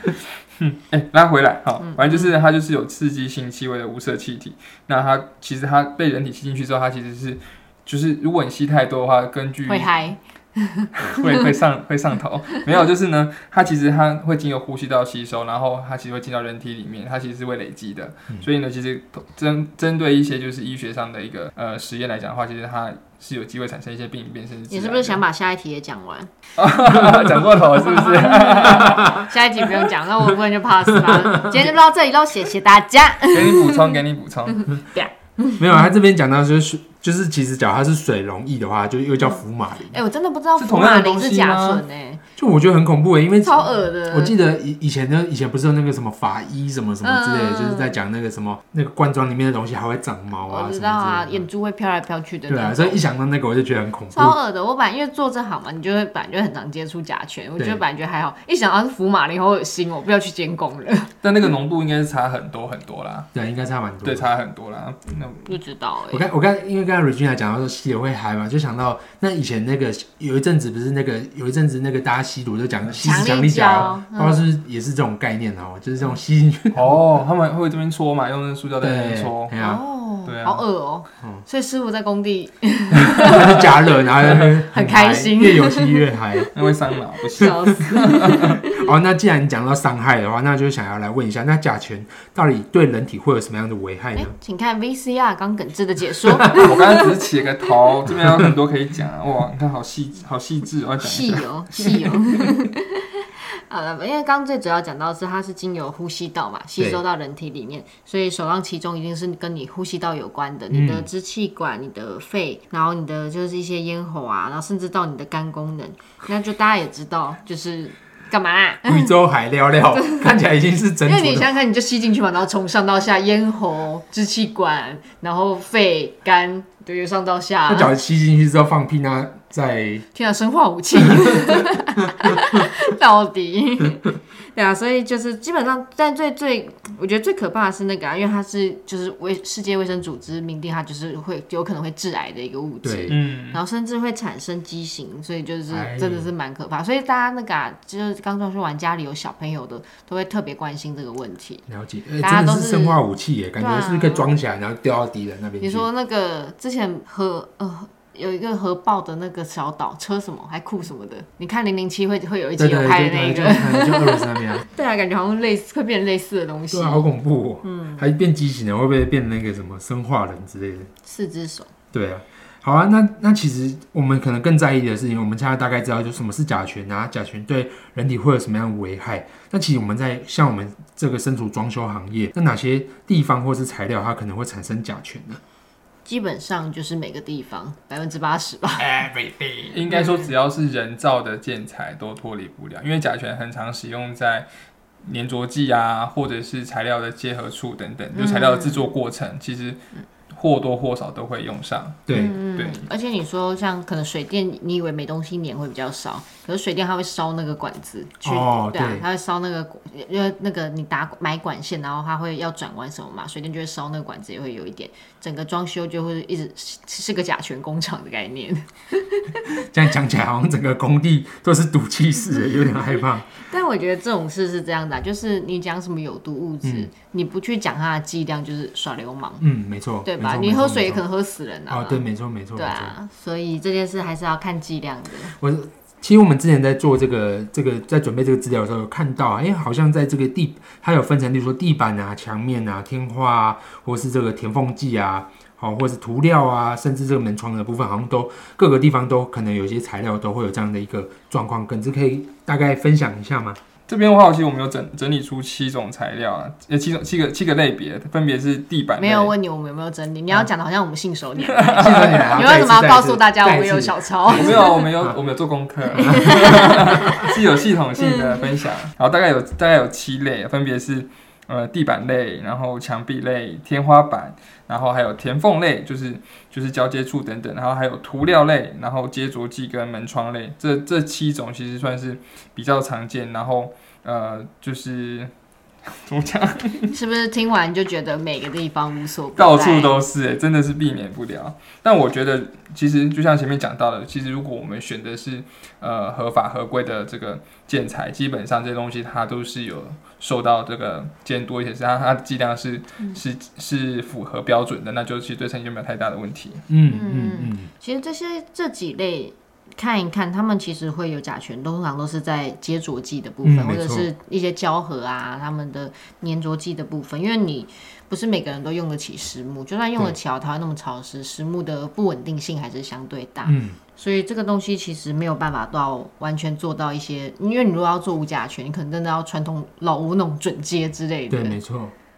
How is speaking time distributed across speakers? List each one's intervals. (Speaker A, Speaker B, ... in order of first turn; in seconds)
Speaker A: 0.6-9.9, 10.9-25.2, 26.6-29.3, 33.3-34.7, 40.6-41.8, 61.2-63.3, 64.0-65.5, 76.7-79.5, 80.2-80.6, 86.5-88.6, 96.5-101.9, 143.1-143.6, 189.7-194.5, 195.0-202.9, 253.9-259.4, 261.4-262.4, 264.3-285.3, 285.9-287.0, 289.4-306.6
Speaker B: 1.8-2.3, 9.7-11.5, 24.7-26.3, 27.9-35.9, 39.2-42.2, 43.4-44.4, 47.0-48.0, 50.5-53.0, 54.1-61.1, 65.5-66.3, 73.0-74.4, 79.6-84.1, 84.6-86.0, 87.2-88.9, 94.2-97.2, 101.0-119.1, 119.9-120.3, 121.0-127.9, 130.1-151.7, 152.2-153.0, 153.6-154.3, 155.6-167.0, 167.6-168.1, 171.1-171.7, 186.1-189.1, 189.9-190.3, 198.1-198.9, 202.1-219.4, 222.7-229.4, 230.0-235.3, 259.0-264.8, 265.9-267.3, 268.0-268.5, 286.9-290.0, 306.9-331.6
Speaker C: 35.6-40.0, 42.4-51.5, 52.5-54.4, 57.6-57.8, 63.3-64.3, 66.1-76.9, 78.8-79.8, 83.2-86.5, 88.2-94.3, 106.8-107.0, 110.7-111.1, 118.8-121.5, 127.7-130.1, 142.8-143.2, 145.7-146.3, 151.7-155.9, 162.6-164.7, 166.7-170.9, 171.9-185.4, 188.8-189.8, 202.1-202.4, 208.2-209.1, 219.6-223.4, 226.6-226.9, 229.4-231.0, 231.7-233.0, 235.4-253.6, 261.8-265.2, 266.0-266.3, 306.7-307.7, 313.4-314.1, 323.4-323.8, 331.3-331.9